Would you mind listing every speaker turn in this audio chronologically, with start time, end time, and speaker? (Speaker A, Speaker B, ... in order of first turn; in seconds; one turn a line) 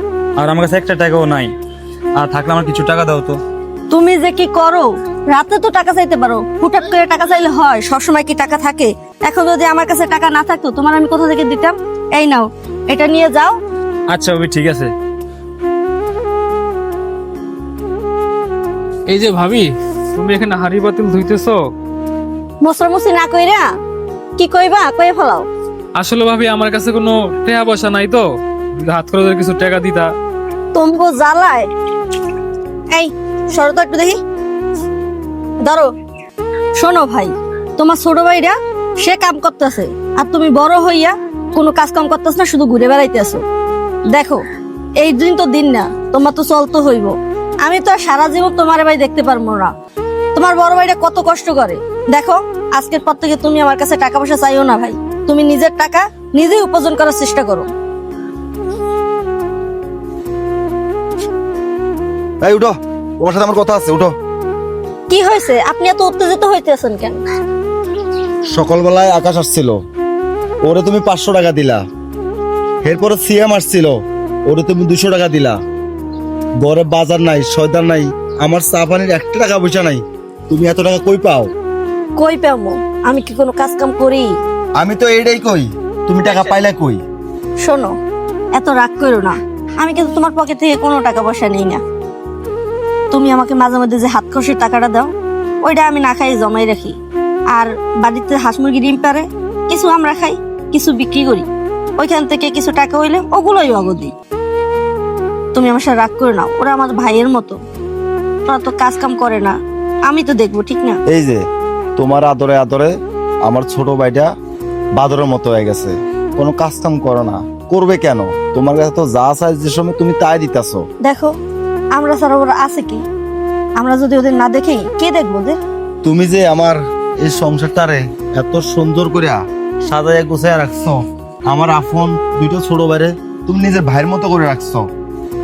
Speaker A: 0.4-1.5
Speaker A: 2.2-3.4
Speaker B: 3.9-13.6
Speaker A: 14.1-14.9
Speaker C: 19.1-21.6
Speaker B: 22.6-23.7
Speaker B: 24.4-25.5
Speaker C: 26.0-28.3
Speaker C: 28.8-30.1
Speaker B: 30.7-31.7
Speaker B: 32.9-34.2
Speaker B: 36.8-43.4
Speaker B: 44.1-44.4
Speaker B: 45.0-49.7
Speaker B: 50.3-57.7
Speaker D: 62.4-64.1
Speaker B: 65.1-67.2
Speaker D: 68.5-69.8
Speaker D: 70.6-71.8
Speaker D: 72.8-75.6
Speaker D: 76.6-81.5
Speaker B: 82.2-84.3
Speaker D: 84.8-87.0
Speaker B: 87.6-87.9
Speaker B: 88.5-91.8
Speaker B: 93.1-95.1
Speaker B: 95.6-97.0
Speaker B: 97.5-104.1
Speaker B: 105.5-107.6
Speaker B: 108.5-109.5
Speaker B: 110.1-111.0
Speaker D: 111.1-111.4
Speaker D: 112.0-112.9
Speaker D: 113.5-114.3
Speaker D: 115.0-120.8
Speaker B: 121.0-121.3
Speaker B: 121.9-123.0
Speaker B: 123.8-125.6
Speaker D: 126.0-134.9